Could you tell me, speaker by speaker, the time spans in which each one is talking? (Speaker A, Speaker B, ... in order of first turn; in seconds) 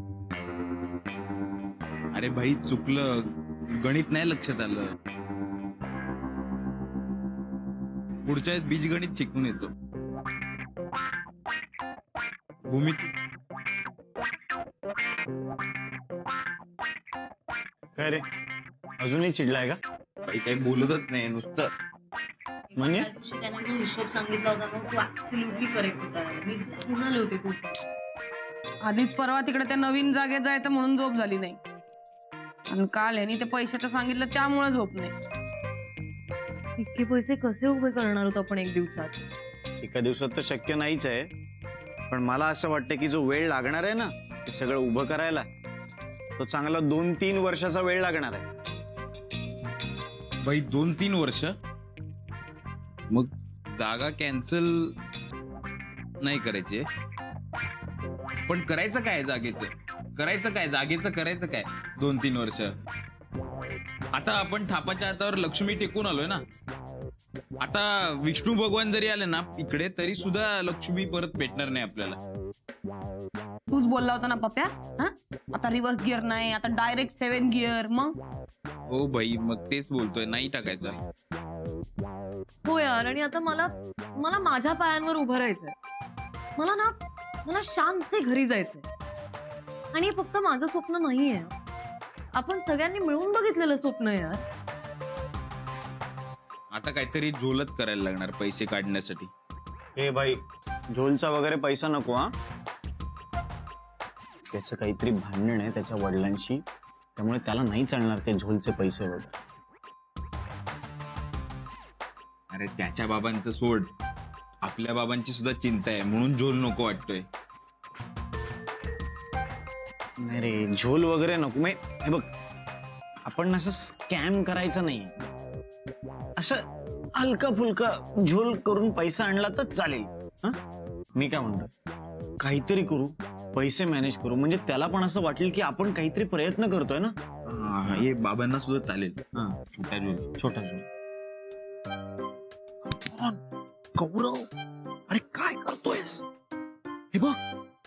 Speaker A: 2.1-3.1, 3.7-4.8, 8.2-9.7, 12.7-13.1, 20.3-21.7, 50.4-51.5, 53.1-54.9, 56.2-56.8, 58.5-62.7, 64.1-66.4, 67.6-72.2, 78.9-81.0, 96.7-99.3, 112.5-113.9, 114.6-117.2, 137.5-140.8
Speaker B: 18.0-18.2, 19.0-19.8, 22.8-23.1, 39.8-41.3, 42.1-45.5, 46.4-48.4, 100.0-100.4, 100.9-102.3, 104.5-106.6, 107.2-109.3, 120.2-122.3, 123.2-125.1, 127.2-130.6, 131.2-131.7, 132.4-137.1
Speaker C: 22.7-27.7, 36.8-39.1, 82.7-85.7, 86.6-88.8, 89.9-91.5, 92.3-94.4
Speaker D: 28.8-31.6, 32.7-35.1, 73.7-78.1
Speaker E: 142.8-143.4, 144.0-144.5, 145.1-146.2, 147.1-147.4